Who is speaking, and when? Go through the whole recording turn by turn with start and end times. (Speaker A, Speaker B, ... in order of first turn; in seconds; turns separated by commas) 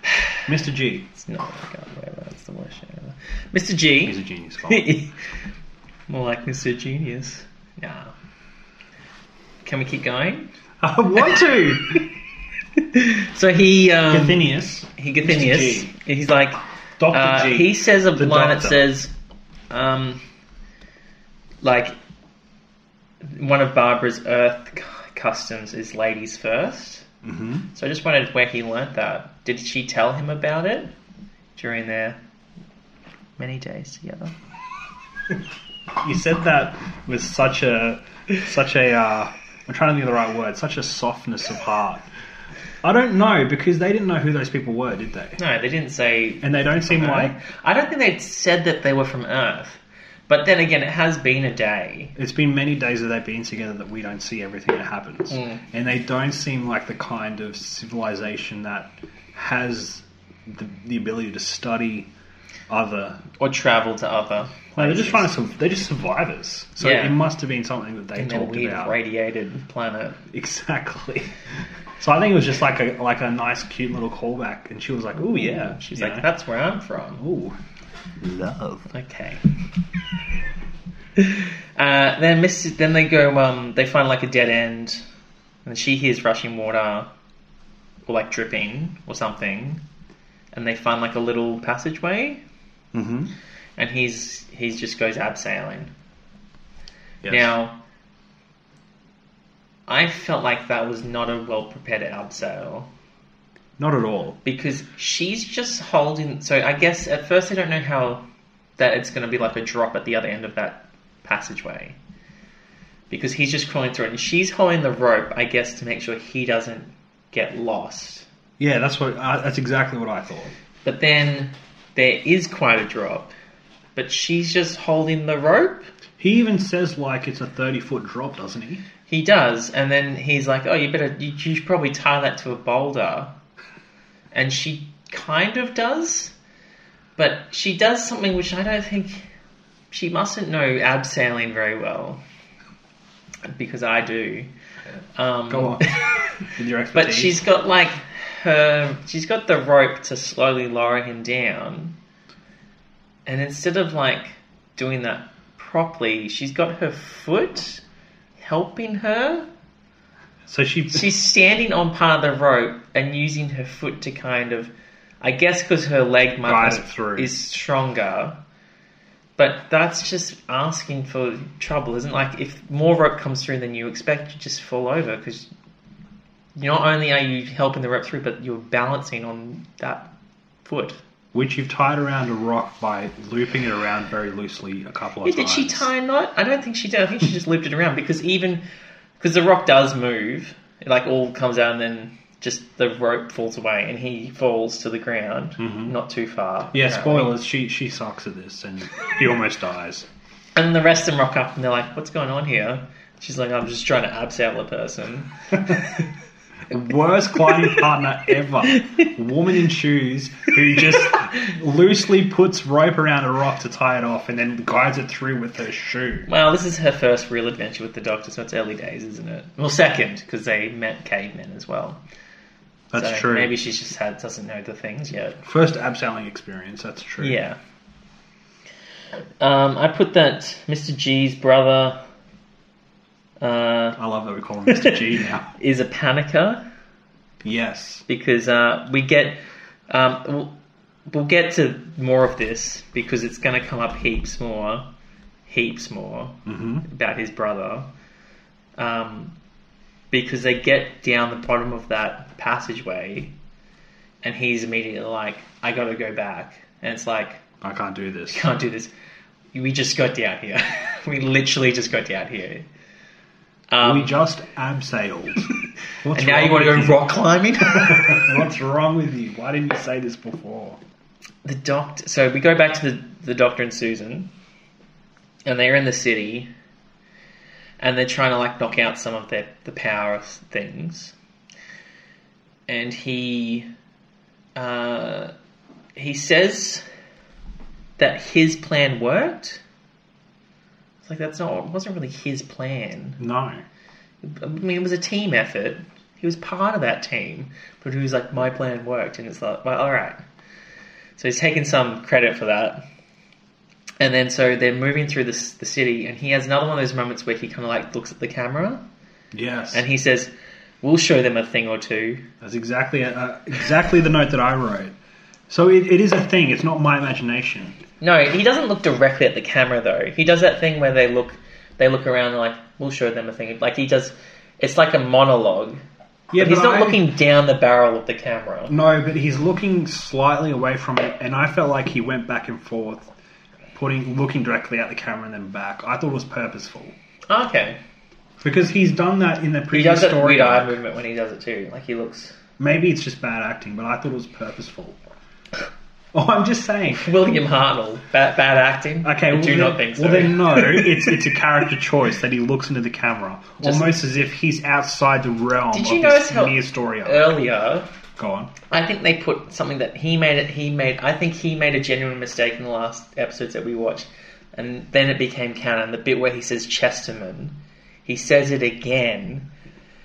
Speaker A: 0.5-1.1, Speaker B: 1.1-5.2, Speaker A: 4.0-4.9, Speaker B: 6.1-8.1, Speaker B: 9.6-10.5, Speaker A: 10.8-12.1, Speaker B: 12.8-19.1, Speaker A: 14.1-15.9, Speaker A: 17.0-18.9, Speaker B: 19.7-20.2, Speaker B: 21.6-22.0, Speaker B: 23.2-27.1, Speaker A: 27.2-27.7, Speaker B: 27.7-30.9, Speaker B: 31.6-32.2, Speaker B: 33.4-34.4, Speaker A: 36.0-42.1, Speaker A: 42.8-45.4, Speaker B: 45.4-52.1, Speaker A: 46.4-47.4, Speaker A: 52.2-62.1, Speaker B: 55.3-55.6, Speaker A: 62.7-63.2, Speaker B: 63.4-65.3, Speaker A: 64.8-69.0, Speaker B: 66.8-67.2, Speaker B: 68.2-70.2, Speaker A: 70.3-71.3, Speaker A: 72.0-76.3, Speaker B: 75.3-77.2, Speaker A: 77.2-77.6, Speaker A: 78.2-78.9, Speaker B: 78.9-79.4, Speaker B: 81.2-85.0, Speaker B: 85.7-87.1, Speaker B: 88.1-89.8, Speaker B: 90.5-92.4, Speaker A: 92.9-93.3, Speaker B: 93.8-95.9, Speaker A: 97.2-97.5, Speaker B: 97.3-97.8, Speaker B: 99.9-102.9, Speaker A: 103.8-104.4, Speaker B: 104.5-108.2, Speaker B: 108.8-112.0, Speaker B: 113.1-118.3, Speaker A: 118.6-120.5, Speaker B: 120.8-123.3, Speaker B: 124.0-125.9, Speaker A: 126.2-128.8, Speaker B: 129.1-133.3, Speaker B: 134.3-136.3, Speaker B: 137.2-139.3, Speaker B: 139.9-142.2, Speaker B: 143.5-144.5, Speaker B: 145.2-152.0, Speaker A: 145.5-147.4, Speaker B: 153.3-157.8, Speaker B: 158.4-159.5, Speaker A: 160.5-161.1, Speaker B: 160.9-168.4, Speaker A: 166.4-167.3, Speaker B: 169.4-175.5, Speaker B: 176.6-180.1, Speaker B: 180.6-181.0, Speaker A: 181.3-185.9, Speaker B: 185.2-188.6, Speaker B: 189.2-197.4, Speaker A: 195.6-196.0, Speaker A: 196.7-200.1, Speaker B: 200.6-206.0, Speaker A: 206.7-216.3, Speaker B: 216.3-222.0, Speaker A: 222.9-223.6, Speaker B: 223.0-225.4, Speaker A: 225.4-227.4, Speaker B: 227.2-227.6, Speaker B: 229.4-232.0, Speaker B: 233.4-234.0, Speaker A: 234.0-235.5, Speaker B: 234.7-235.0, Speaker B: 235.6-236.6, Speaker A: 237.4-238.1, Speaker B: 238.1-240.6, Speaker B: 241.1-244.9, Speaker B: 245.5-247.9, Speaker A: 246.5-246.9, Speaker B: 248.8-249.3, Speaker B: 250.1-253.3, Speaker B: 254.2-257.4, Speaker A: 257.6-258.5, Speaker B: 258.3-258.9, Speaker B: 259.5-262.6, Speaker B: 263.7-264.2, Speaker A: 263.8-265.5, Speaker A: 266.0-267.0, Speaker B: 266.1-268.4, Speaker A: 267.7-270.8, Speaker B: 271.4-274.3, Speaker B: 275.5-276.5, Speaker B: 277.8-281.1, Speaker B: 282.7-283.7, Speaker B: 284.6-285.3, Speaker B: 286.0-286.8, Speaker B: 288.0-289.6, Speaker B: 291.0-293.2, Speaker A: 293.2-293.6, Speaker B: 294.2-300.2, Speaker B: 301.2-302.8, Speaker B: 304.0-308.8, Speaker A: 309.3-309.8, Speaker B: 309.7-312.2, Speaker A: 312.4-314.9, Speaker A: 315.5-317.8, Speaker B: 318.0-325.8, Speaker A: 326.3-327.0, Speaker B: 326.4-328.7, Speaker A: 328.7-333.1, Speaker A: 333.7-336.9, Speaker B: 337.3-337.8, Speaker A: 338.4-340.8, Speaker B: 339.7-342.4, Speaker A: 342.6-345.0, Speaker A: 346.1-347.1, Speaker B: 346.9-351.2, Speaker A: 349.0-357.4, Speaker B: 353.6-353.9, Speaker B: 355.7-357.9, Speaker A: 358.2-358.5, Speaker B: 358.7-369.5